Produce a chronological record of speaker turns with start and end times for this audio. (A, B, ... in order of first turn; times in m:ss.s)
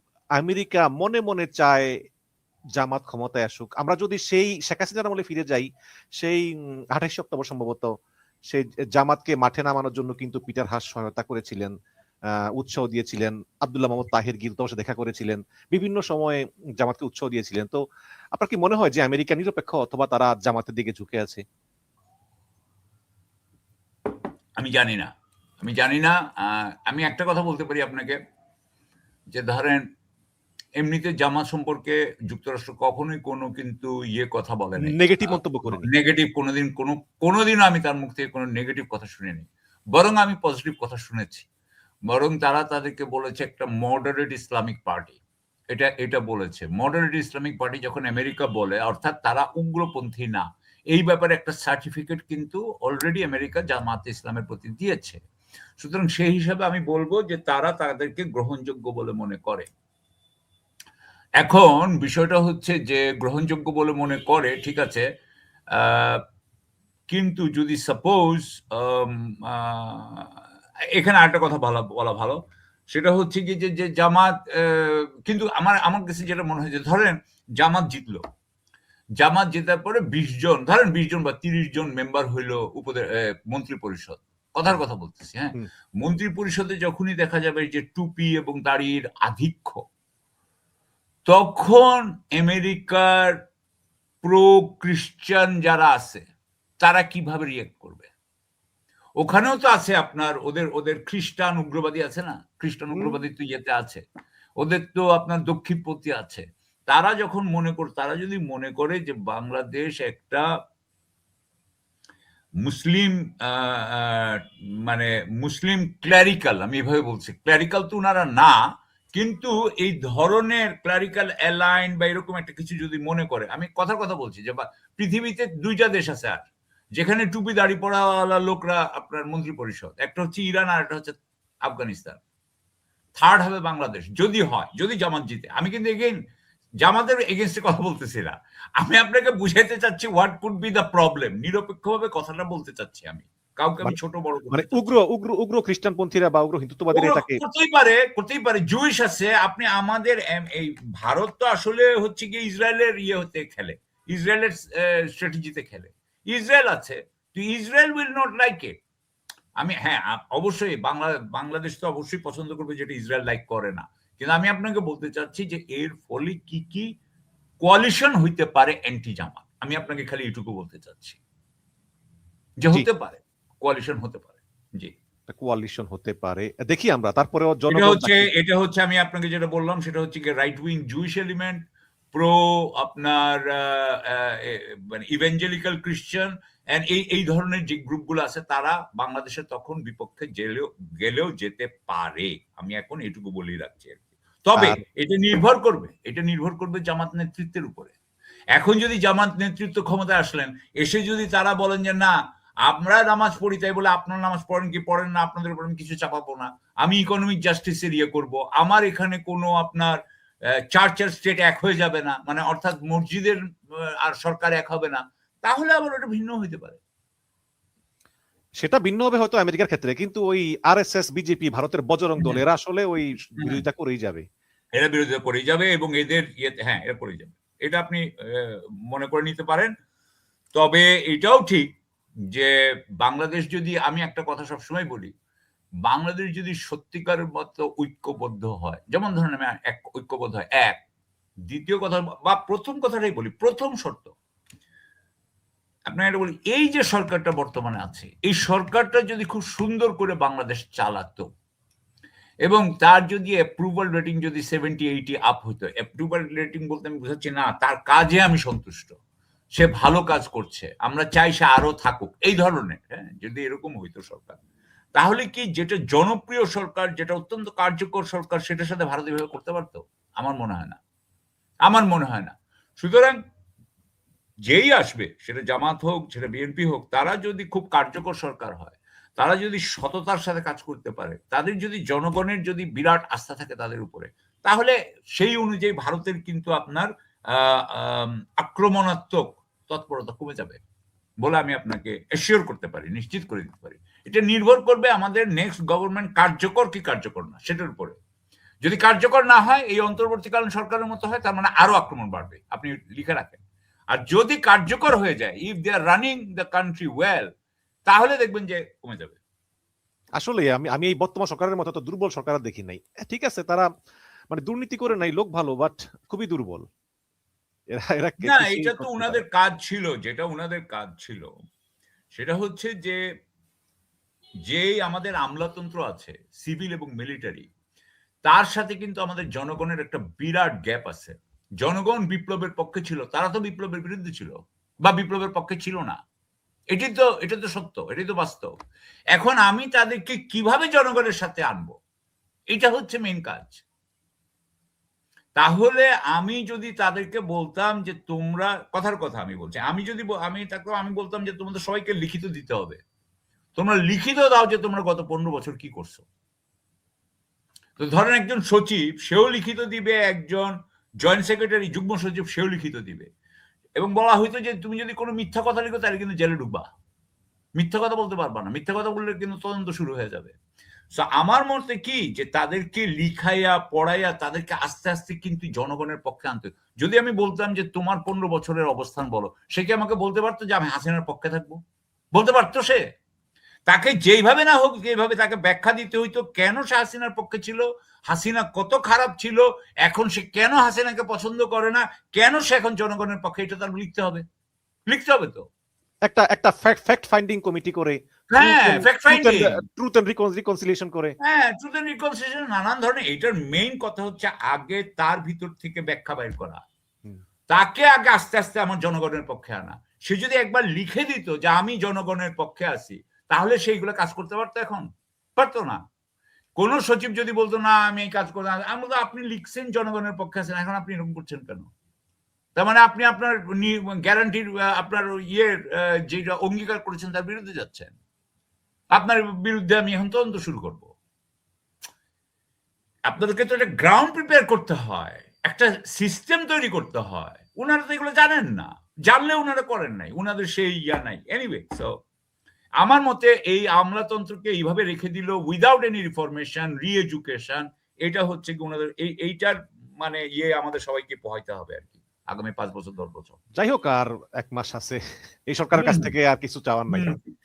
0:00.4-0:01.8 A
0:02.8-0:05.7 A
0:06.2-0:07.9 A
0:08.5-0:11.7 A
0:12.6-0:17.8 A
0:18.3-0:21.4 A
0:24.6-0:28.2 B
0:29.3-0:29.8 B
0:30.8-0:41.4 B
0:34.8-0:35.9 A
0:42.1-0:45.2 B
0:45.7-0:55.2 B
0:55.8-0:59.7 B
1:01.4-1:05.0 B
1:05.7-1:06.2 B
1:07.1-1:10.3 B
1:11.0-1:12.4 B
1:12.9-1:18.2 B
1:19.2-1:29.8 B
1:31.3-1:33.3 B
1:34.2-1:36.2 B
1:36.8-1:38.1 B
1:39.2-1:44.0 B
1:42.9-1:43.2 A
1:44.6-1:50.4 B
1:52.6-1:58.6 B
1:59.1-2:12.2 B
2:13.2-2:16.2 B
2:16.8-2:24.7 B
2:24.5-2:27.4 A
2:26.9-2:38.8 B
2:39.6-2:46.9 B
2:47.6-2:51.2 B
2:52.6-2:54.9 B
2:55.3-2:58.3 A
2:57.7-3:01.6 B
3:02.1-3:17.9 B
3:14.5-3:14.8 A
3:18.5-3:22.1 B
3:22.6-3:29.9 B
3:30.7-3:33.4 B
3:34.0-3:36.8 B
3:38.6-3:44.2 A
3:43.4-3:43.6 B
3:44.8-3:49.7 B
3:50.5-3:51.7 B
3:52.3-3:55.1 B
3:55.8-4:00.8 B
4:01.5-4:04.1 B
4:05.9-4:11.3 B
4:12.4-4:19.0 B
4:19.5-4:24.4 B
4:25.0-4:30.8 B
4:31.7-4:33.2 B
4:34.5-4:50.6 B
4:51.2-4:58.0 B
4:58.6-5:03.4 B
5:03.9-5:07.3 B
5:07.9-5:09.2 B
5:10.2-5:13.7 A
5:14.3-5:16.7 A
5:17.7-5:19.2 A
5:18.2-5:21.3 B
5:22.1-5:23.0 B
5:24.5-5:27.5 B
5:28.2-5:36.0 B
5:36.7-5:38.5 B
5:39.1-5:41.8 B
5:42.5-5:43.6 B
5:45.4-5:52.8 B
5:53.6-5:56.0 B
5:57.8-6:03.1 B
6:03.8-6:06.7 B
6:07.6-6:10.4 B
6:10.9-6:21.6 B
6:22.1-6:22.8 B
6:23.7-6:34.2 B
6:34.9-6:35.5 B
6:36.1-6:41.2 A
6:38.3-6:39.6 B
6:41.2-6:46.6 B
6:47.5-6:54.9 B
6:55.4-6:55.8 B
6:56.6-7:01.7 B
7:02.6-7:08.0 B
7:08.9-7:10.9 B
7:13.1-7:21.9 B
7:22.8-7:33.4 B
7:33.6-7:35.0 A
7:35.5-7:37.2 A
7:35.8-7:36.1 B
7:36.9-7:37.3 B